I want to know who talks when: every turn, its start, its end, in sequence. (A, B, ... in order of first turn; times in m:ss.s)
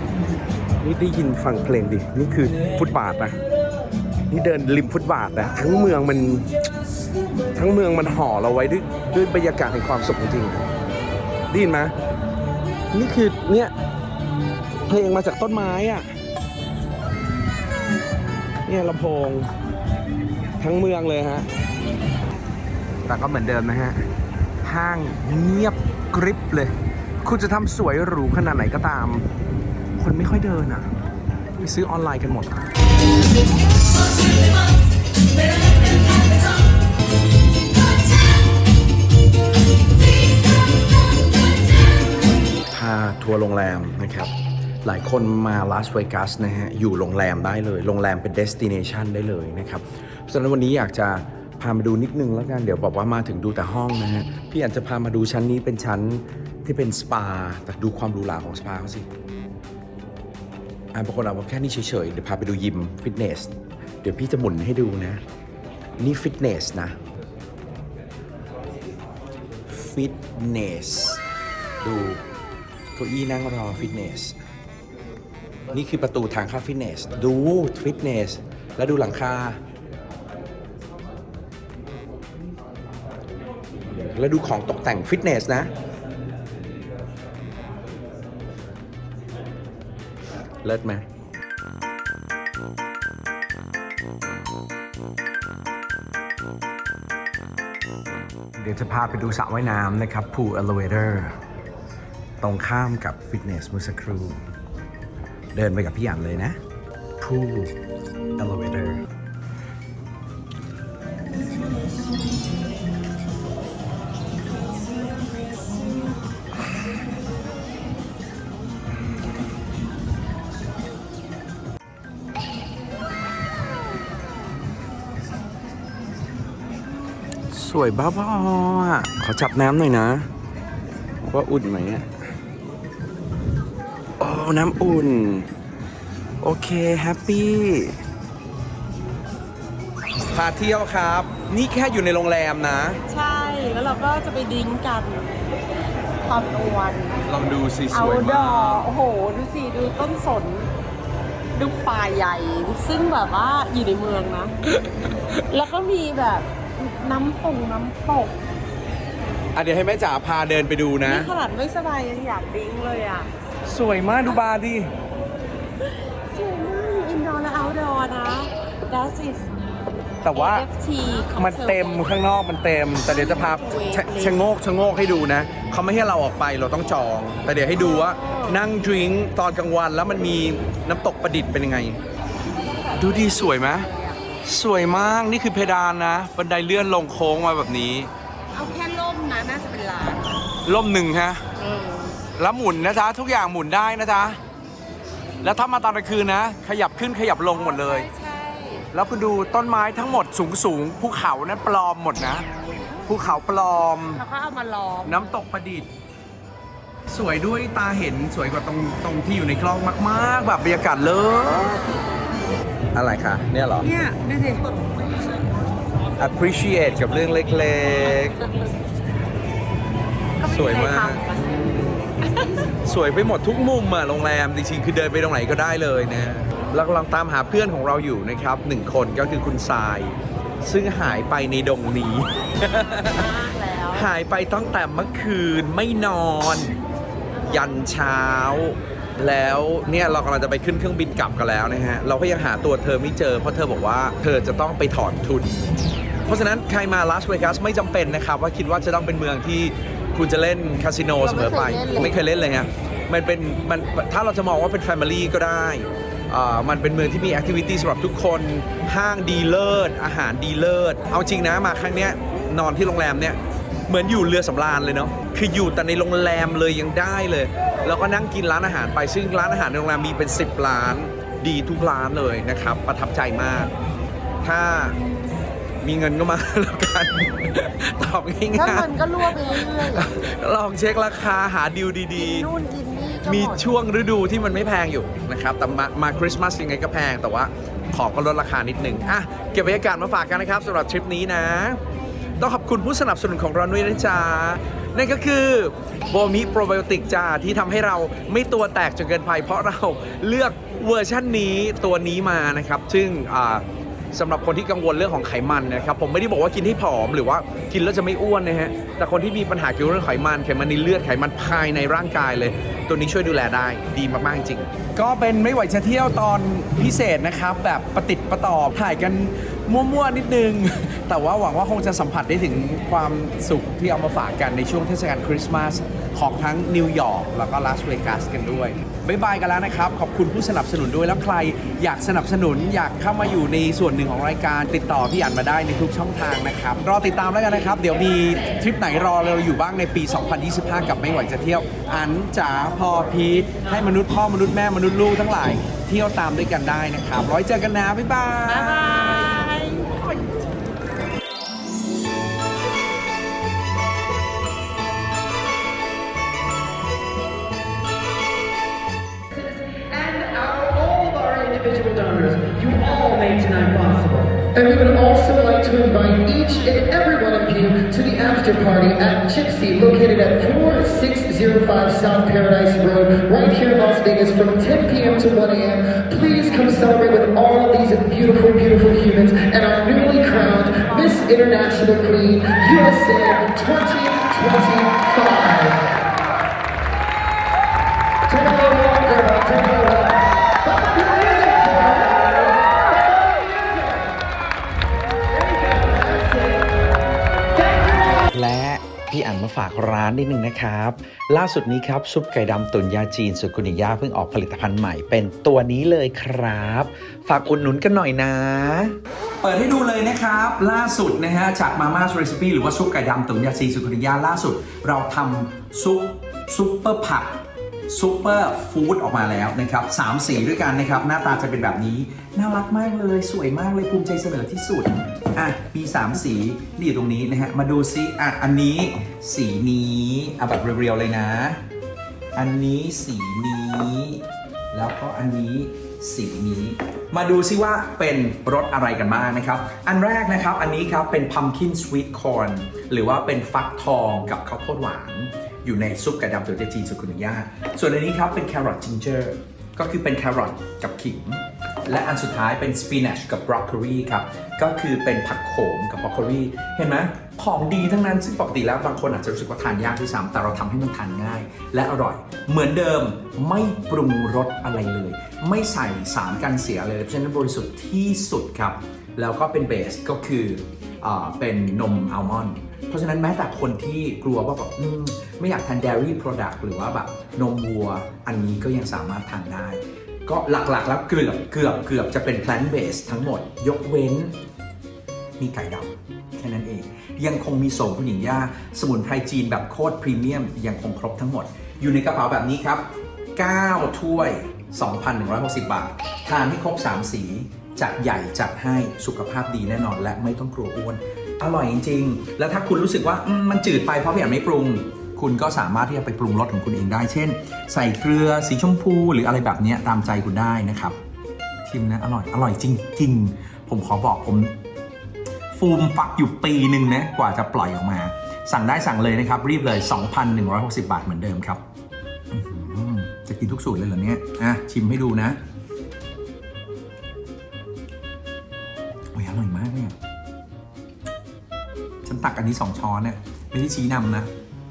0:00.8-0:03.4 A
0:04.3-0:06.5 A
0:07.6-0:10.7 A
0:11.5-0:11.9 A
0:12.9-0:13.8 A
0:14.9-0:16.2 A
0:18.7-0:19.5 A
0:20.6-0:21.5 A
0:23.1-0:24.1 A
0:24.6-0:29.3 A
0:30.0-0:31.0 A
0:31.6-0:32.7 A
0:42.7-0:44.3 A
0:44.8-0:59.1 A
1:00.9-1:05.2 A
1:06.0-1:07.0 A
1:09.7-1:11.2 A
1:11.8-1:12.2 A
1:13.0-1:14.4 A
1:15.7-1:19.6 A
1:24.1-1:25.7 A
1:30.6-1:31.1 A
1:38.6-1:41.4 A
1:42.4-1:44.4 A
1:45.5-1:46.6 A
1:47.2-1:47.7 A
1:48.4-1:49.0 A
2:07.5-2:10.3 A
2:11.2-2:12.1 A
2:14.2-2:15.5 A
2:16.4-2:18.0 A
2:20.3-2:23.0 A
2:23.1-2:25.4 B
2:26.2-2:27.3 B
2:27.3-2:28.9 A
2:27.9-2:30.7 B
2:31.6-2:34.5 B
2:34.6-2:35.4 A
2:35.5-2:38.4 B
2:39.5-2:41.3 A
2:41.0-2:43.3 B
2:43.7-2:44.9 A
2:46.2-2:49.5 B
2:50.2-2:50.7 A
2:50.3-2:52.2 B
2:51.3-3:02.0 A
2:53.0-2:54.4 B
2:57.7-2:58.6 B
3:02.8-3:04.2 B
3:03.0-3:03.9 A
3:04.4-3:08.1 A
3:08.5-3:10.4 B
3:10.6-3:11.4 A
3:11.6-3:12.2 B
3:12.4-3:14.4 A
3:15.4-3:18.1 A
3:17.5-3:18.9 B
3:18.9-3:22.5 A
3:23.1-3:24.2 A
3:24.2-3:25.3 B
3:25.0-3:25.9 A
3:27.1-3:31.9 A
3:33.0-3:33.9 A
3:33.8-3:34.8 B
3:36.2-3:38.4 A
3:40.4-3:42.5 B
3:40.4-3:41.2 A
3:42.8-3:53.3 A
3:52.9-3:54.1 B
3:53.9-3:56.8 A
3:57.3-3:57.8 B
3:57.5-4:05.6 A
4:06.2-4:33.7 A
4:11.2-4:12.2 B
4:34.4-4:35.0 A
4:35.8-4:42.5 A
4:38.5-4:40.2 B
4:42.1-4:43.6 B
4:43.2-4:51.8 A
4:52.4-5:49.3 A
5:48.5-5:50.1 B
5:59.7-6:25.8 C
6:28.3-6:32.6 C
6:33.2-6:33.6 C
6:35.5-6:36.5 C
6:38.3-7:11.6 A
7:12.4-8:04.4 A
8:05.4-8:31.0 A
8:31.6-8:34.6 A
8:35.5-8:41.6 A
8:42.3-8:45.4 A
8:49.1-8:50.0 A
8:52.0-8:54.3 A